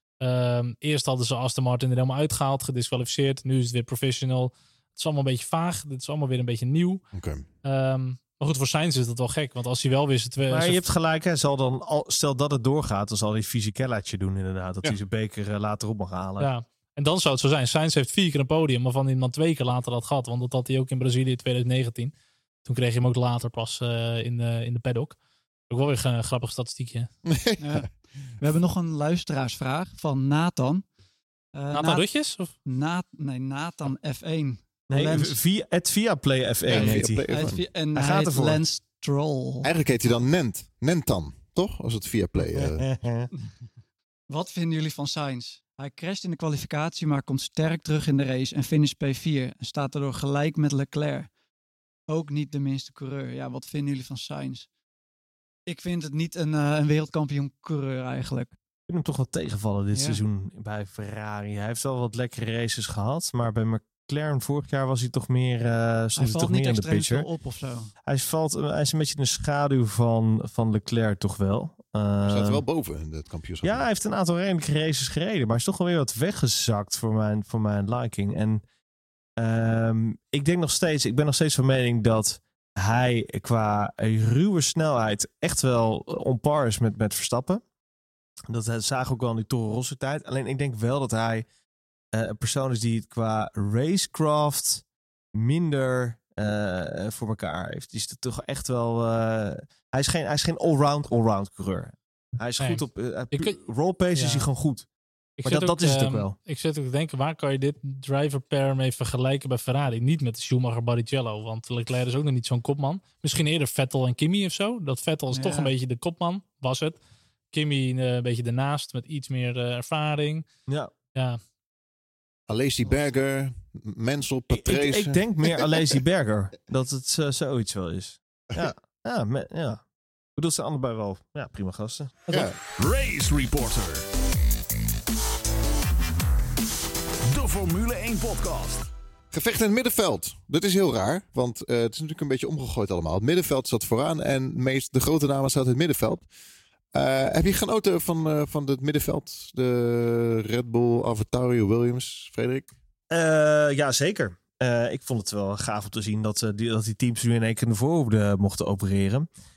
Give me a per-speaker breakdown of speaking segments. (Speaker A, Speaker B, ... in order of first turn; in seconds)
Speaker A: 0.2-7.0, 7.6-10.8, 16.4-22.1, 22.6-25.2, 25.7-27.1, 31.7-32.5, 102.6-103.6, 104.1-104.5, 105.4-117.0, 117.5-120.5, 121.2-121.4
Speaker B: 7.1-7.5, 27.2-27.9, 36.7-37.6, 39.6-42.9, 72.2-73.8, 122.5-125.9, 132.3-132.6, 139.3-146.3, 146.9-152.7
Speaker C: 10.5-16.5, 34.9-37.3, 38.0-38.6, 42.5-43.3, 58.9-67.3, 68.0-72.6, 73.6-78.6, 79.4-87.6, 88.5-91.5, 92.1-94.8, 95.3-104.9, 105.5-106.3, 120.7-120.9, 124.5-129.8, 130.4-132.5, 153.1-159.3
Speaker D: 27.6-30.8, 31.5-32.1, 32.6-35.4, 36.7-39.7, 44.3-51.3, 52.1-54.7, 55.7-58.5, 59.9-60.2, 66.2-67.9, 115.3-115.7
Speaker E: 132.7-134.1, 137.3-138.9